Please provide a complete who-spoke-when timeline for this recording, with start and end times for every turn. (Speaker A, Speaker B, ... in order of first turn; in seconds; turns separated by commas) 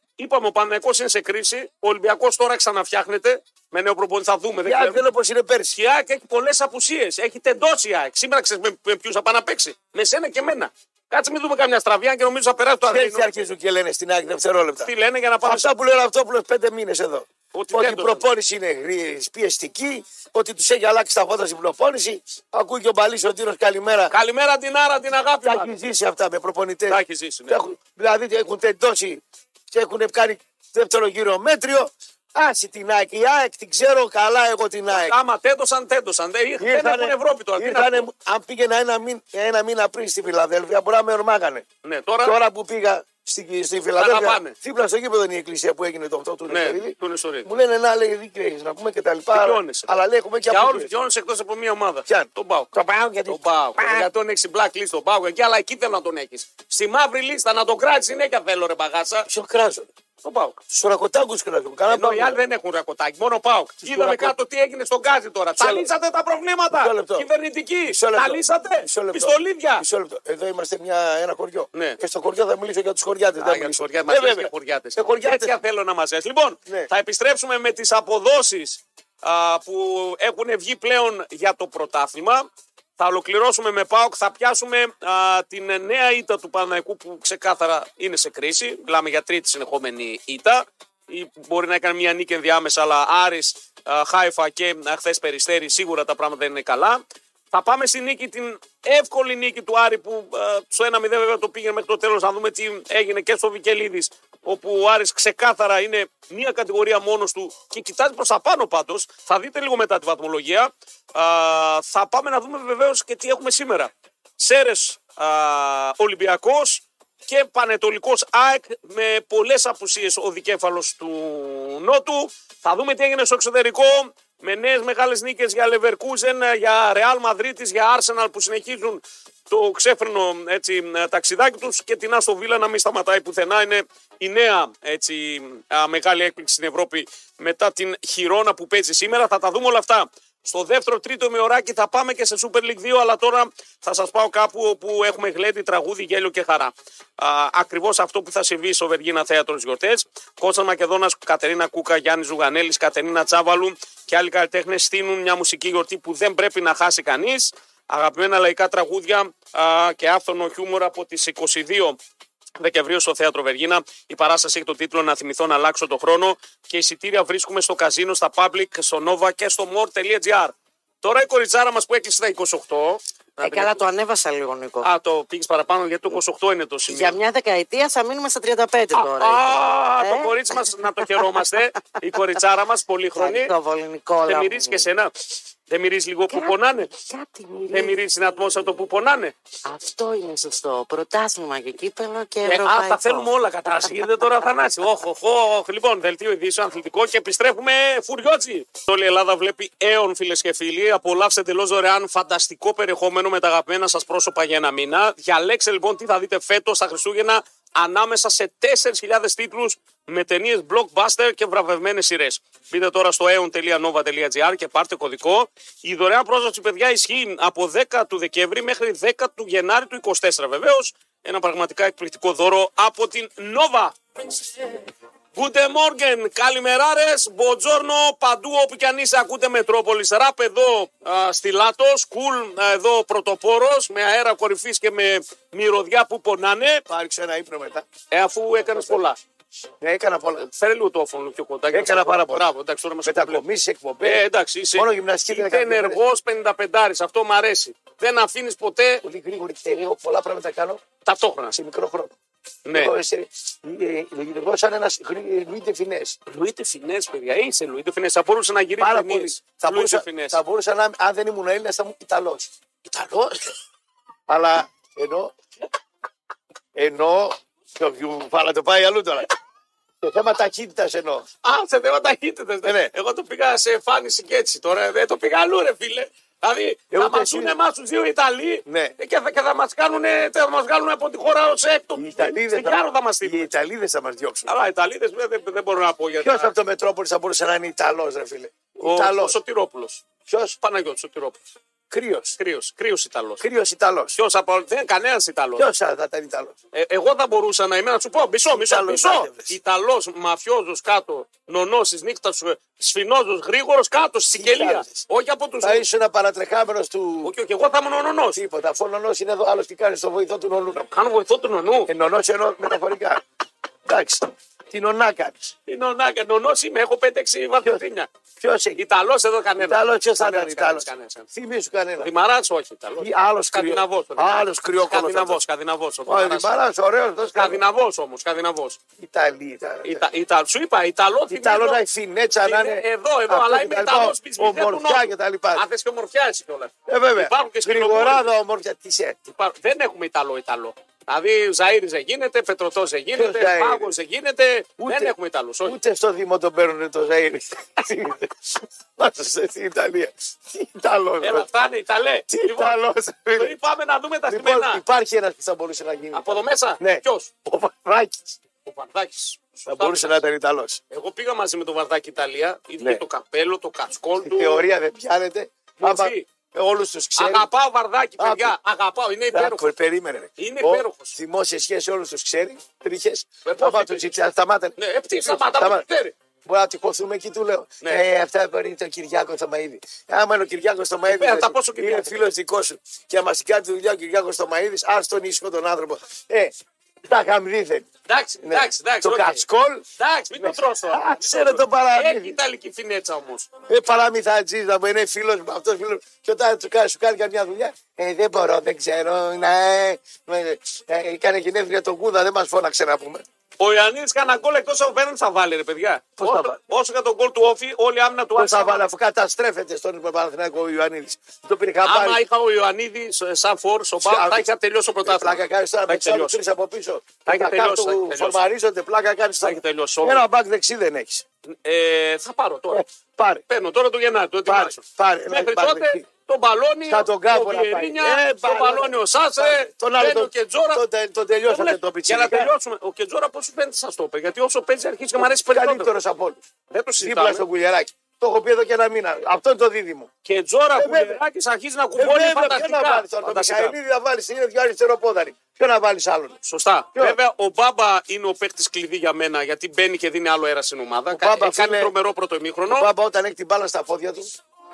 Speaker A: 0.2-5.0, Speaker B: 4.6-5.8, Speaker A: 5.7-13.3, Speaker B: 12.9-14.9, Speaker A: 14.8-15.7, Speaker B: 15.4-24.1, Speaker A: 17.5-18.2, Speaker A: 24.1-25.7, Speaker B: 25.4-35.1, Speaker A: 26.9-27.6, Speaker A: 34.9-38.1, Speaker B: 36.6-41.6, Speaker A: 41.8-42.4, Speaker B: 42.2-50.9, Speaker A: 44.0-44.5, Speaker A: 46.5-47.5, Speaker A: 49.3-49.9, Speaker A: 50.5-52.7, Speaker B: 52.1-54.1, Speaker A: 53.3-59.3, Speaker B: 59.3-59.9, Speaker A: 60.2-60.6, Speaker B: 60.7-62.4, Speaker A: 61.9-69.9, Speaker B: 63.8-64.3, Speaker B: 65.6-65.9, Speaker B: 66.7-67.3, Speaker B: 67.9-75.5, Speaker A: 71.7-72.0, Speaker A: 73.4-82.5, Speaker A: 83.0-162.0, Speaker A: 162.6-173.8, Speaker C: 173.4-174.9, Speaker A: 174.8-177.2, Speaker C: 176.9-181.4, Speaker A: 178.9-183.5, Speaker C: 183.2-184.9, Speaker A: 184.2-186.9, Speaker C: 186.3-188.0, Speaker A: 187.7-189.3, Speaker C: 189.7-193.3, Speaker A: 192.4-224.8, Speaker A: 225.3-236.8, Speaker B: 236.9-237.9, Speaker A: 238.1-239.2, Speaker B: 239.8-240.5, Speaker A: 240.4-243.4, Speaker B: 241.7-242.5, Speaker B: 243.0-246.0, Speaker A: 244.0-249.0, Speaker B: 249.0-250.8, Speaker A: 251.0-251.6, Speaker B: 251.5-252.1, Speaker A: 252.7-252.9, Speaker B: 252.7-256.2, Speaker A: 256.3-260.4, Speaker B: 258.8-262.5, Speaker A: 262.9-263.5, Speaker B: 264.3-265.3, Speaker B: 266.7-269.3, Speaker B: 270.0-271.2, Speaker A: 271.4-283.5, Speaker B: 272.6-272.9, Speaker B: 276.9-277.6, Speaker B: 278.6-278.9, Speaker B: 281.9-284.5, Speaker A: 284.4-286.5, Speaker B: 286.2-289.4, Speaker A: 288.8-290.0, Speaker B: 290.3-290.6, Speaker A: 290.6-291.4, Speaker B: 291.9-292.4, Speaker A: 292.4-293.4, Speaker B: 293.4-294.2, Speaker A: 294.1-295.7, Speaker B: 295.6-296.6, Speaker A: 296.7-305.9, Speaker B: 298.5-299.5, Speaker B: 304.4-305.0, Speaker B: 305.6-307.3, Speaker A: 307.2-308.4, Speaker B: 308.4-310.9, Speaker A: 310.9-311.9, Speaker B: 311.9-313.2, Speaker B: 313.9-315.5, Speaker A: 315.7-318.1, Speaker B: 318.4-318.8, Speaker A: 318.8-321.3, Speaker B: 319.6-322.1, Speaker A: 322.0-326.5, Speaker B: 323.0-325.4, Speaker B: 326.1-327.6, Speaker A: 327.3-328.8, Speaker B: 329.0-330.1, Speaker A: 329.8-331.8, Speaker B: 331.3-335.6, Speaker A: 332.4-338.3, Speaker B: 336.9-339.2, Speaker A: 339.3-345.8, Speaker B: 343.1-343.9, Speaker B: 344.8-351.5, Speaker A: 351.2-352.8, Speaker B: 352.3-353.5, Speaker A: 353.4-354.8, Speaker B: 354.3-356.2, Speaker A: 356.1-357.3, Speaker B: 356.8-358.4, Speaker A: 358.6-360.2, Speaker B: 359.7-360.8, Speaker A: 360.9-364.6, Speaker B: 364.2-367.5, Speaker A: 365.8-366.2, Speaker A: 367.1-369.6, Speaker B: 368.2-368.5, Speaker B: 369.3-375.9, Speaker A: 370.4-371.1, Speaker A: 373.4-374.1, Speaker A: 374.8-376.1, Speaker B: 376.4-386.5, Speaker A: 381.1-382.2, Speaker B: 387.1-387.9, Speaker A: 388.1-389.4, Speaker B: 388.4-389.9, Speaker A: 390.0-393.5, Speaker B: 390.4-392.4, Speaker B: 393.7-403.2, Speaker A: 403.6-408.9, Speaker B: 406.2-406.6, Speaker B: 408.4-412.2, Speaker A: 411.9-416.4, Speaker B: 414.0-414.4, Speaker B: 415.0-421.2, Speaker A: 417.2-418.4, Speaker A: 419.4-420.2, Speaker A: 421.5-422.8, Speaker B: 422.7-423.4, Speaker A: 423.5-430.8, Speaker B: 424.4-426.0, Speaker B: 426.9-432.5, Speaker A: 431.5-435.9, Speaker B: 435.2-436.4, Speaker A: 436.7-437.4, Speaker B: 437.0-440.1, Speaker A: 440.2-443.7, Speaker B: 440.8-441.2, Speaker B: 441.9-446.4, Speaker A: 446.4-452.9, Speaker B: 451.1-451.9, Speaker B: 452.7-454.3